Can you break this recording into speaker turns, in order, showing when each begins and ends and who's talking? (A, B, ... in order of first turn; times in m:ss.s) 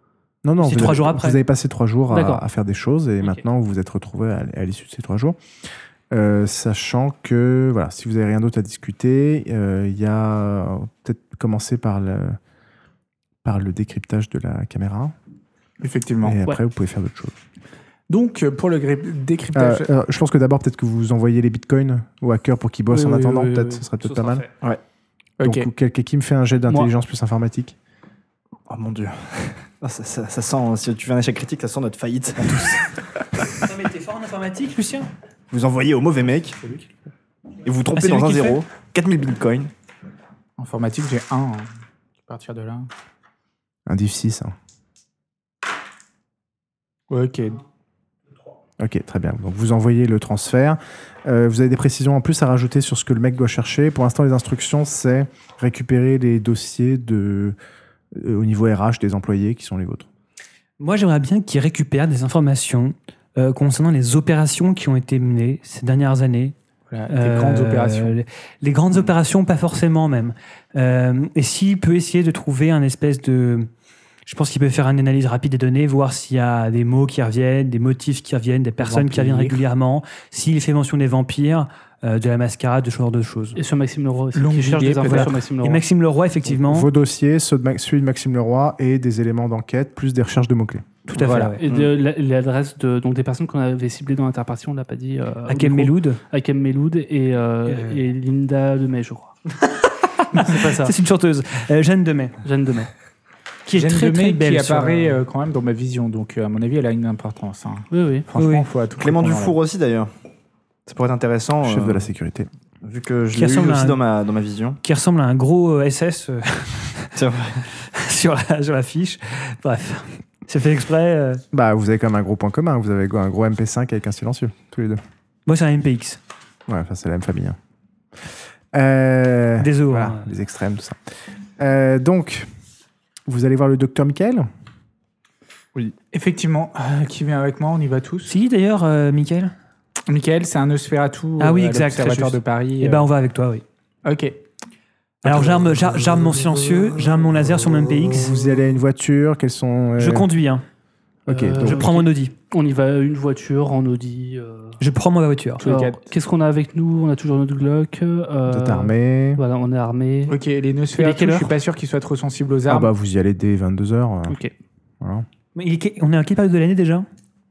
0:00.4-0:05.4 A
0:00.6-0:01.4 B
0:02.1-0:02.4 C
0:06.1-0:12.4 A
0:13.4-0:15.1 A
0:15.8-0:16.4 D
0:16.2-0:17.4 A
0:18.1-0:19.9 D
0:19.6-0:24.4 A
0:22.9-0:24.4 C
0:25.4-0:25.7 D
0:25.4-0:27.8 A
0:28.7-0:33.6 E
0:33.5-0:35.1 B
0:35.5-0:36.6 E
0:36.6-0:36.9 D
0:37.6-0:39.7 E
0:37.9-0:38.6 B
0:40.6-0:41.7 D
0:42.3-0:42.9 D
0:43.9-0:44.5 A
0:47.1-0:47.6 D
0:48.8-0:57.6 A
0:58.1-1:00.1 A
1:00.8-1:06.6 B
1:06.9-1:08.1 D
1:07.1-1:13.7 B
1:14.3-1:23.6 B
1:18.8-1:19.6 D
1:23.6-1:25.8 C
1:24.3-1:25.4 D
1:25.0-1:26.9 B
1:26.4-1:30.9 A
1:31.1-1:31.6 B
1:31.1-1:31.6 D
1:31.6-1:39.4 C
1:31.6-1:31.9 E
1:35.5-1:36.2 B
1:37.7-1:38.1 B
1:39.6-1:42.4 B
1:40.3-1:41.0 C
1:42.4-1:42.9 C
1:43.6-1:45.2 B
1:43.7-1:49.6 D
1:47.9-1:48.3 C
1:48.4-1:48.6 B
1:49.0-1:50.1 E
1:50.9-1:52.1 E
1:51.6-1:52.5 A
1:52.8-1:54.8 E
1:53.3-1:54.0 B
1:54.8-1:57.1 B
1:57.1-1:57.6 E
1:57.7-2:01.4 B
2:01.5-2:05.0 A
2:05.4-2:06.2 B
2:06.7-2:07.6 A
2:08.2-2:12.5 A
2:09.6-2:10.3 B
2:13.3-2:14.5 A
2:16.1-2:18.3 D
2:18.3-2:19.5 B
2:20.1-2:23.1 D
2:21.4-2:23.6 B
2:24.0-2:24.4 D
2:25.2-2:28.4 B
2:25.3-2:25.9 D
2:28.1-2:30.3 A
2:30.0-2:30.6 B
2:31.3-2:31.9 A
2:31.3-2:34.8 C
2:31.6-2:32.3 B
2:34.8-2:35.6 B
2:35.6-2:36.0 D
2:35.6-2:40.4 C
2:38.5-2:39.4 A
2:40.3-2:42.9 D
2:41.0-2:41.5 C
2:42.7-2:44.4 A
2:44.3-2:44.5 C
2:45.0-2:45.2 A
2:45.5-2:47.1 B